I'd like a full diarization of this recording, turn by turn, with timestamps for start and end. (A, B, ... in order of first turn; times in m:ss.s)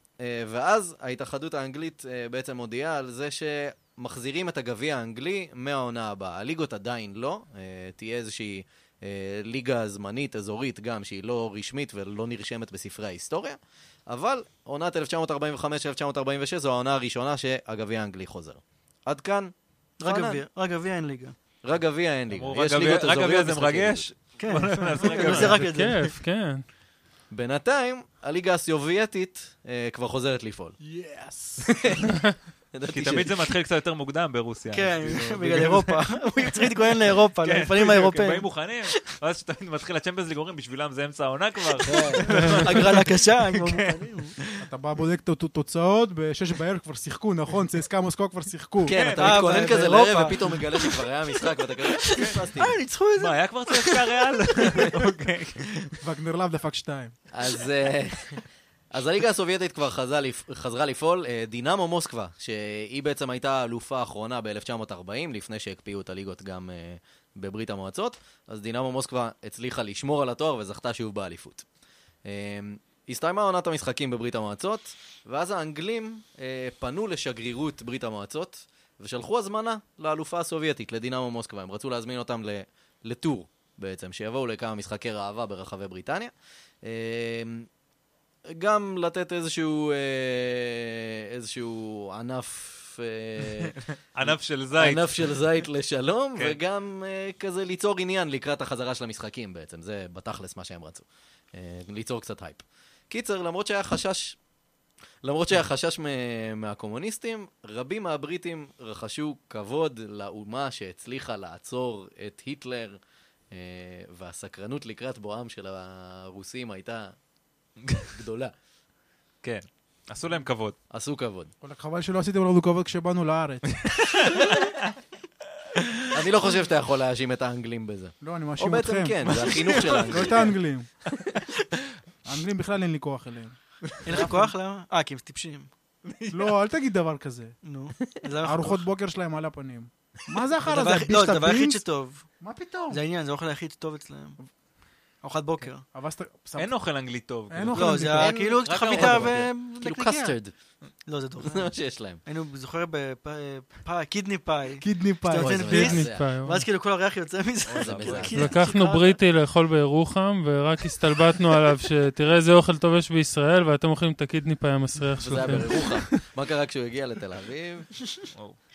0:00.2-0:20.4 A
0:20.0-0:21.4 B
0:21.6-0:24.0 A
0:22.3-0:25.6 C
0:24.4-0:26.1 B
0:25.1-0:26.6 D
0:27.3-0:30.8 A
0:30.8-0:31.7 E
0:31.6-0:32.2 A
0:32.7-0:33.5 A
0:32.9-0:44.6 C
0:34.7-0:38.9 B
0:35.0-0:35.6 A
0:41.8-0:44.3 B
0:41.8-0:42.2 A
0:42.3-0:42.6 D
0:44.6-0:49.0 E
0:48.8-0:49.5 C
0:48.8-0:52.7 A
0:49.2-0:51.0 B
0:51.9-0:54.9 B
0:53.2-0:56.0 C
0:56.0-0:57.1 E
0:57.3-1:11.6 A
1:12.2-1:26.3 A
1:26.8-1:27.7 A
1:28.5-1:44.4 A
1:33.4-1:35.4 C
1:45.2-1:53.0 A
1:53.5-1:57.1 A
1:57.8-1:58.1 C
1:58.1-1:58.5 A
1:59.4-2:00.8 C
2:00.9-2:01.5 A
2:01.6-2:03.7 E
2:03.8-2:04.7 C
2:05.8-2:06.1 C
2:06.1-2:10.5 A
2:08.2-2:10.9 E
2:11.1-2:11.4 C
2:12.2-2:13.6 E
2:13.8-2:14.4 C
2:14.0-2:15.7 B
2:16.0-2:16.5 C
2:16.3-2:17.5 E
2:17.6-2:18.8 B
2:18.4-2:21.8 E
2:20.6-2:22.3 B
2:22.4-2:23.0 E
2:22.9-2:24.4 B
2:25.2-2:25.8 B
2:25.9-2:26.7 E
2:26.6-2:29.4 C
2:27.5-2:28.4 E
2:27.7-2:30.4 B
2:28.2-2:30.5 A
2:31.0-2:31.7 B
2:31.4-2:32.2 A
2:32.2-2:39.2 B
2:34.8-2:35.7 E
2:35.4-2:36.3 A
2:35.7-2:36.6 D
2:37.7-2:38.5 A
2:37.7-2:38.3 C
2:38.3-2:46.0 D
2:45.2-2:47.9 A